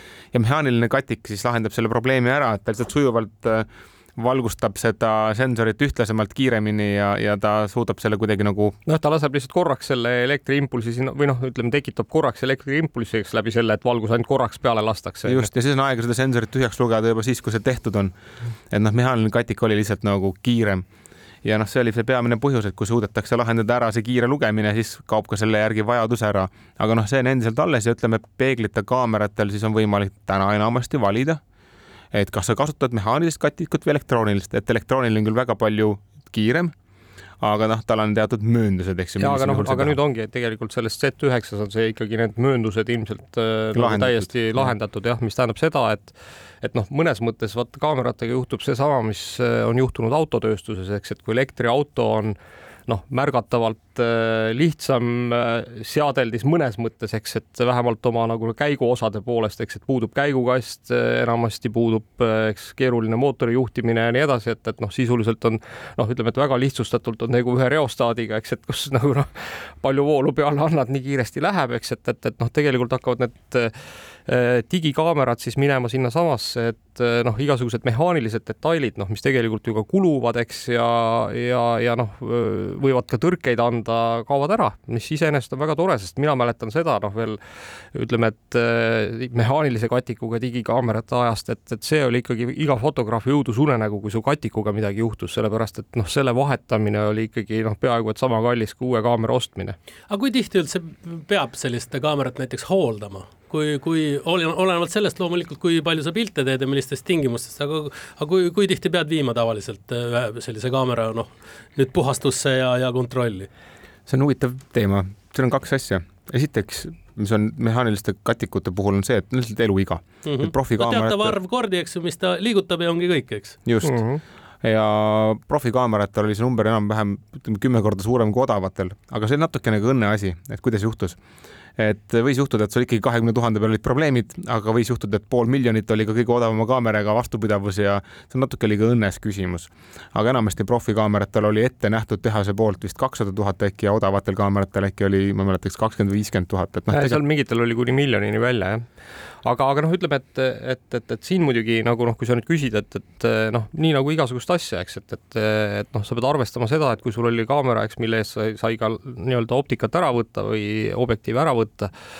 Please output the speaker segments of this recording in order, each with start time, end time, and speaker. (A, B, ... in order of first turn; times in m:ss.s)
0:00.3-0:08.8 A
0:08.9-0:15.5 B
0:15.3-0:18.1 A
0:18.7-0:20.8 A
0:21.4-0:31.4 A
0:32.1-0:36.7 A
0:37.4-0:40.0 A
0:39.2-1:13.8 B
0:43.7-0:44.7 A
1:14.3-1:27.4 B
1:27.9-1:39.8 B
1:40.1-1:53.5 C
1:54.1-2:01.4 A
2:00.2-2:03.6 C
2:03.7-2:04.0 A
2:03.8-2:04.2 B
2:04.6-2:11.2 A
2:11.8-2:27.2 A
2:26.9-2:28.8 B
2:29.4-2:41.9 B